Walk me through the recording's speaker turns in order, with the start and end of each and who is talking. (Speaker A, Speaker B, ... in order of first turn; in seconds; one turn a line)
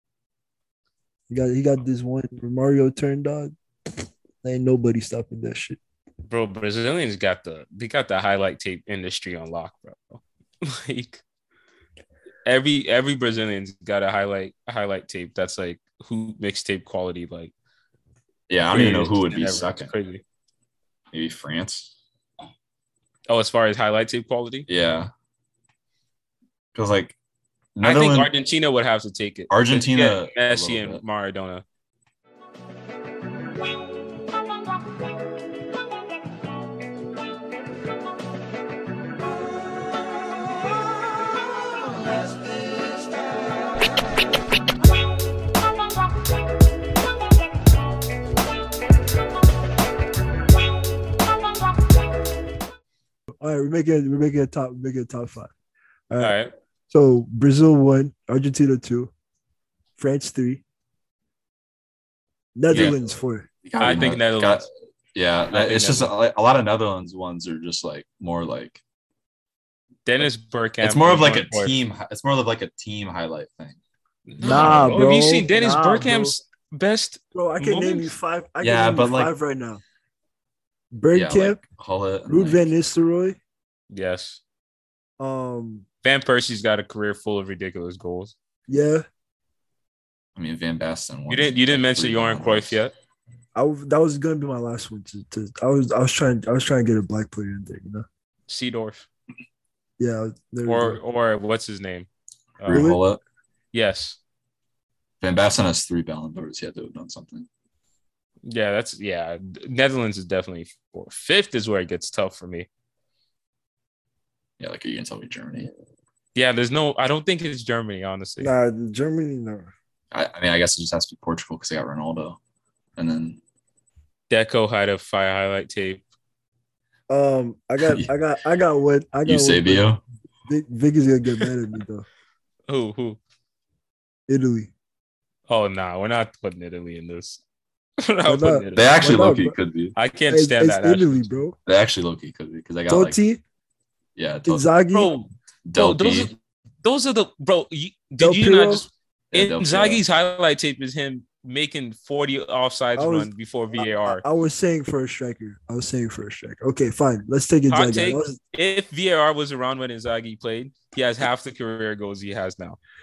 Speaker A: 1.3-3.5
Speaker A: 4.4-5.8
Speaker B: 6.2-11.2
Speaker B: 12.4-17.5
Speaker C: 18.5-19.9
Speaker B: 18.7-20.2
Speaker C: 21.1-21.9
Speaker B: 23.3-24.6
Speaker C: 24.7-25.1
Speaker C: 26.7-27.1
Speaker C: 27.7-28.3
Speaker B: 27.8-31.6
Speaker C: 29.5-31.0
Speaker A: 53.4-55.5
Speaker A: 56.1-56.4
Speaker B: 56.2-56.5
Speaker A: 56.9-59.1
Speaker A: 60.0-60.6
Speaker A: 62.5-63.5
Speaker C: 63.6-68.8
Speaker B: 63.8-64.7
Speaker B: 65.5-66.1
Speaker B: 70.0-71.7
Speaker C: 70.8-73.8
Speaker B: 74.3-78.1
Speaker C: 74.4-75.1
Speaker A: 74.4-76.3
Speaker A: 77.3-79.8
Speaker C: 78.6-79.3
Speaker A: 80.9-81.6
Speaker C: 81.1-82.7
Speaker A: 82.3-83.4
Speaker B: 83.9-84.4
Speaker A: 85.2-85.8
Speaker B: 86.0-88.3
Speaker A: 88.7-89.0
Speaker C: 90.3-92.8
Speaker B: 91.3-92.9
Speaker A: 93.5-98.0
Speaker B: 98.5-99.1
Speaker A: 100.0-101.0
Speaker B: 100.7-102.1
Speaker B: 102.6-102.8
Speaker C: 102.6-103.2
Speaker A: 102.7-103.0
Speaker B: 103.7-104.2
Speaker C: 105.2-107.5
Speaker B: 108.4-112.7
Speaker C: 114.6-115.7
Speaker B: 116.3-118.5
Speaker A: 118.4-119.7
Speaker C: 120.1-122.4
Speaker C: 123.0-123.4
Speaker B: 124.3-126.0
Speaker A: 127.1-129.9
Speaker C: 127.8-128.1
Speaker C: 129.2-130.0
Speaker A: 130.4-132.1
Speaker B: 132.7-133.2
Speaker A: 134.3-134.7
Speaker B: 135.5-137.4
Speaker B: 138.0-139.2
Speaker A: 138.2-139.6
Speaker C: 138.7-139.9
Speaker B: 139.9-141.2
Speaker A: 140.3-141.6
Speaker C: 141.7-143.2
Speaker A: 142.9-143.4
Speaker C: 144.2-144.7
Speaker A: 144.4-145.1
Speaker B: 144.9-154.2
Speaker C: 145.7-146.3
Speaker A: 148.2-148.8
Speaker C: 149.3-150.0
Speaker A: 152.9-158.4
Speaker B: 157.7-162.8